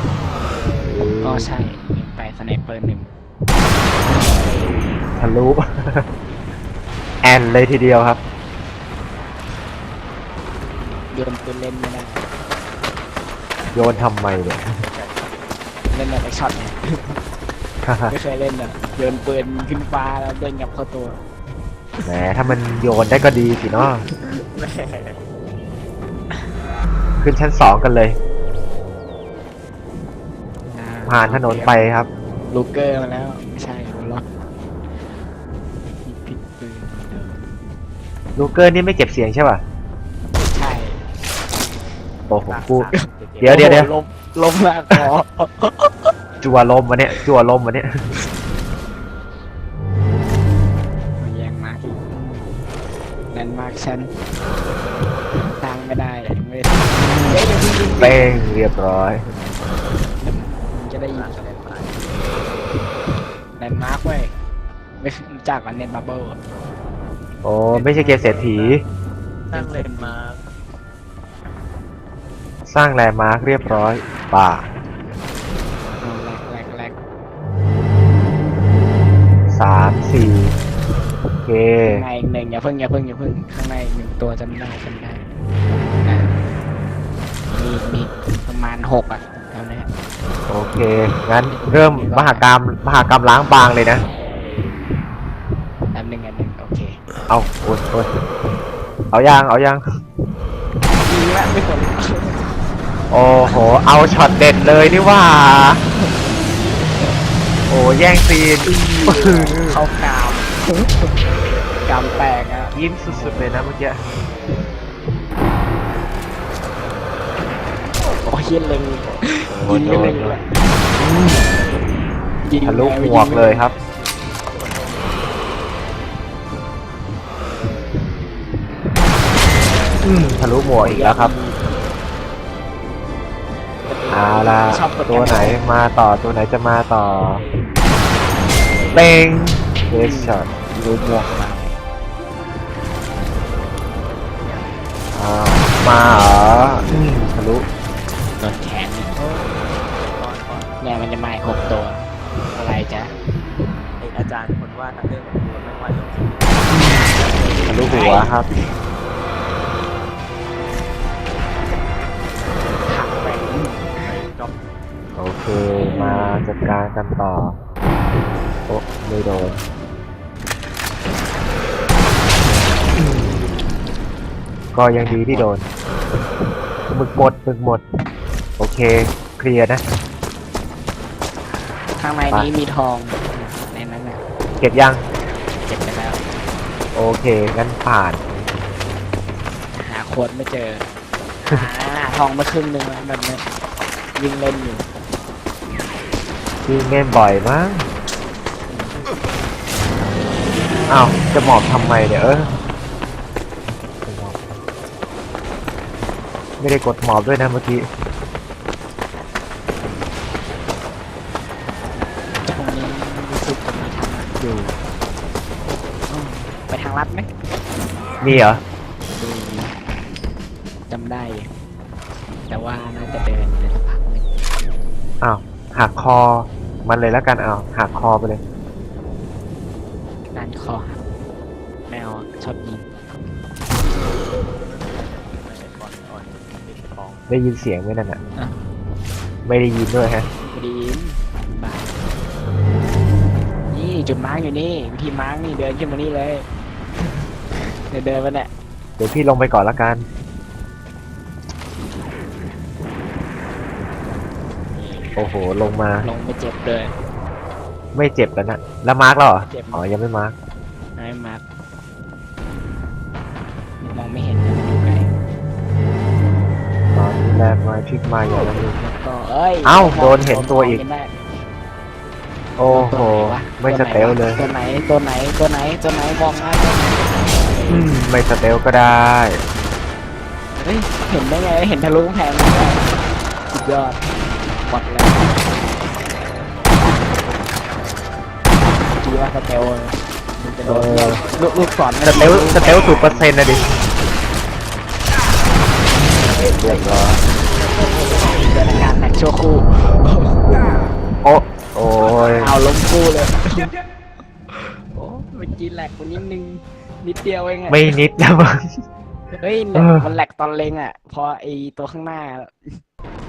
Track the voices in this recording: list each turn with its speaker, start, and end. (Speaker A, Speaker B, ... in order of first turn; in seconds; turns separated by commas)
Speaker A: 0.8-1.5, Speaker B: 1.2-3.1, Speaker B: 4.1-4.4, Speaker A: 5.2-6.0, Speaker A: 7.2-8.2, Speaker B: 11.1-12.3, Speaker A: 13.7-14.8, Speaker C: 13.8-15.3, Speaker B: 15.9-17.2, Speaker A: 17.8-18.1, Speaker B: 18.1-21.2, Speaker A: 22.0-24.0, Speaker C: 24.2-25.2, Speaker A: 27.2-28.2, Speaker B: 30.6-31.9, Speaker A: 31.1-32.1, Speaker B: 32.5-34.2, Speaker B: 36.0-37.4, Speaker A: 38.4-39.6, Speaker B: 40.5-41.0, Speaker A: 42.3-42.9, Speaker C: 42.4-43.6, Speaker A: 43.4-43.9, Speaker B: 43.4-46.1, Speaker A: 46.4-48.0, Speaker B: 51.2-52.6, Speaker B: 53.3-54.1, Speaker B: 55.6-58.3, Speaker A: 56.9-59.3, Speaker B: 60.2-61.5, Speaker C: 61.1-62.4, Speaker B: 63.6-64.3, Speaker B: 65.0-66.4, Speaker A: 67.4-68.8, Speaker C: 67.7-68.7, Speaker B: 68.0-68.3, Speaker C: 69.5-70.4, Speaker B: 69.5-70.1, Speaker A: 72.7-74.7, Speaker B: 76.0-77.0, Speaker A: 79.5-80.5, Speaker A: 81.4-82.0, Speaker B: 81.8-85.3, Speaker B: 86.0-86.3, Speaker B: 87.5-89.9, Speaker A: 90.5-94.0, Speaker B: 91.5-92.4, Speaker B: 95.9-97.0, Speaker A: 97.3-98.1, Speaker A: 99.1-99.8, Speaker B: 101.0-102.5, Speaker A: 103.1-105.8, Speaker A: 107.7-109.8, Speaker B: 108.7-111.1, Speaker B: 111.8-113.5, Speaker A: 112.7-114.0, Speaker B: 118.2-120.8, Speaker A: 119.6-120.4, Speaker C: 119.7-120.2, Speaker A: 121.0-121.5, Speaker B: 122.4-123.7, Speaker A: 122.6-123.8, Speaker C: 124.5-125.3, Speaker A: 130.0-131.3, Speaker B: 130.8-131.6, Speaker B: 133.9-135.6, Speaker A: 134.1-137.4, Speaker A: 138.9-141.0, Speaker B: 139.9-141.8, Speaker C: 144.4-144.7, Speaker A: 145.1-147.7, Speaker B: 148.4-149.5, Speaker C: 149.9-150.8, Speaker B: 150.8-153.1, Speaker C: 154.0-158.3, Speaker A: 156.7-157.1, Speaker A: 157.7-158.5, Speaker B: 157.8-158.6, Speaker B: 162.9-164.0, Speaker C: 164.0-164.6, Speaker A: 165.2-167.6, Speaker B: 165.8-166.4, Speaker A: 168.7-169.6, Speaker A: 172.9-173.4, Speaker A: 174.7-175.7, Speaker B: 175.0-175.5, Speaker A: 176.9-177.8, Speaker A: 178.6-179.8, Speaker B: 182.0-184.2, Speaker A: 184.6-185.0, Speaker B: 185.6-186.2, Speaker A: 186.9-188.2, Speaker B: 189.7-190.8, Speaker B: 191.4-193.4, Speaker B: 194.1-194.8, Speaker A: 196.7-197.8, Speaker B: 198.7-199.0, Speaker A: 200.9-202.5, Speaker A: 204.0-204.4, Speaker A: 206.6-207.8, Speaker B: 212.4-214.3, Speaker A: 214.4-214.8, Speaker B: 216.1-217.3, Speaker A: 218.2-218.6, Speaker B: 219.1-219.7, Speaker B: 220.9-221.5, Speaker B: 222.5-224.3, Speaker A: 225.2-228.4, Speaker B: 230.3-231.0, Speaker B: 231.9-232.8, Speaker C: 234.6-237.3, Speaker A: 237.3-238.2, Speaker A: 239.4-240.3, Speaker B: 240.5-242.0, Speaker B: 243.7-246.4, Speaker B: 247.0-248.5, Speaker A: 249.0-250.1, Speaker B: 254.7-255.1, Speaker A: 255.2-256.1, Speaker B: 256.0-256.9, Speaker A: 257.9-260.3, Speaker B: 259.4-259.8, Speaker B: 260.9-261.4, Speaker B: 263.8-265.1, Speaker A: 266.9-268.8, Speaker B: 268.8-271.1, Speaker A: 269.6-270.8, Speaker A: 272.6-274.4, Speaker B: 272.6-277.4, Speaker A: 277.7-279.4, Speaker B: 280.6-282.8, Speaker B: 283.5-284.0, Speaker B: 284.6-285.4, Speaker C: 286.8-287.8, Speaker B: 288.9-293.3, Speaker A: 290.6-291.2, Speaker A: 292.0-293.7, Speaker B: 296.5-296.9, Speaker A: 296.6-297.2, Speaker B: 297.8-300.7, Speaker A: 301.2-302.5, Speaker B: 302.4-303.7, Speaker B: 304.9-307.9, Speaker A: 307.7-308.8, Speaker B: 309.3-312.8, Speaker A: 309.7-310.0